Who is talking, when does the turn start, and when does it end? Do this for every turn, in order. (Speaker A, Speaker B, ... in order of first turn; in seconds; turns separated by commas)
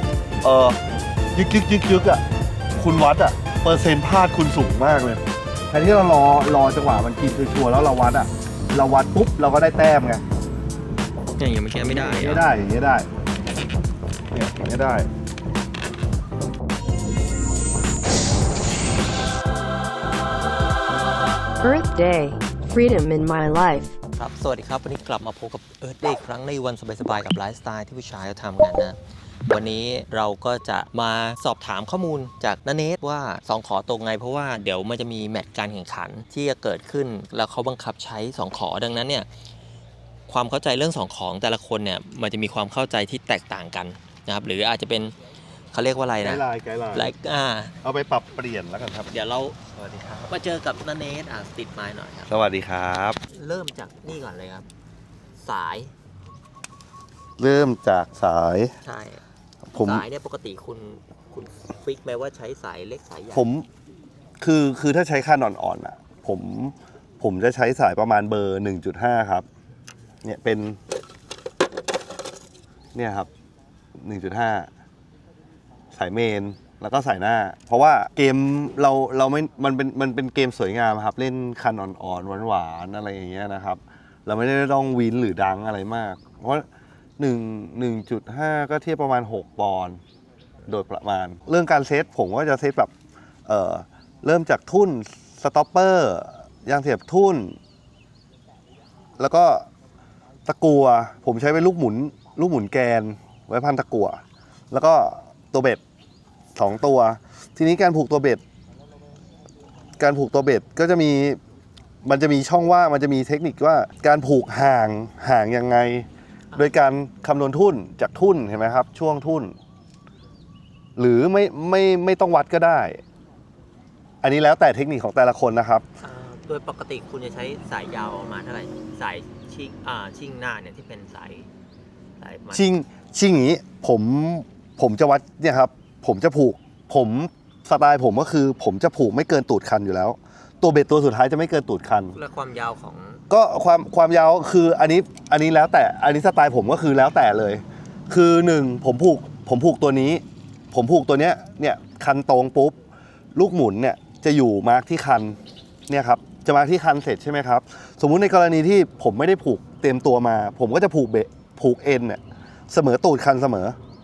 Speaker A: 0.4-0.8, Speaker A: 1.3-2.2, Speaker A: 2.8-10.2, Speaker B: 11.4-12.5, Speaker A: 11.9-13.1, Speaker A: 14.3-15.1, Speaker C: 21.6-23.9, Speaker B: 24.2-29.0, Speaker B: 29.5-39.3, Speaker B: 40.3-45.1, Speaker B: 45.7-47.7, Speaker A: 46.2-47.1, Speaker A: 47.8-49.1, Speaker B: 49.1-49.6, Speaker A: 49.8-50.3, Speaker B: 50.3-52.3, Speaker A: 52.3-53.2, Speaker B: 53.3-54.7, Speaker B: 55.4-55.9, Speaker A: 57.4-58.7, Speaker B: 58.8-59.2, Speaker A: 59.7-60.0, Speaker B: 59.7-63.5, Speaker A: 63.3-63.7, Speaker A: 64.4-69.5, Speaker A: 70.2-70.8, Speaker A: 72.9-73.3, Speaker A: 74.0-74.7, Speaker A: 75.9-86.7, Speaker A: 87.2-90.0, Speaker A: 90.6-92.9, Speaker A: 93.5-97.6, Speaker A: 99.2-99.7, Speaker A: 100.5-105.8, Speaker A: 106.6-108.4, Speaker A: 110.0-111.4, Speaker A: 112.0-119.5, Speaker A: 121.0-123.0, Speaker A: 124.2-125.8, Speaker B: 126.0-131.5, Speaker B: 132.2-132.7, Speaker A: 132.5-142.2, Speaker B: 142.1-143.2, Speaker A: 143.3-152.8, Speaker A: 153.3-155.4, Speaker A: 155.9-163.8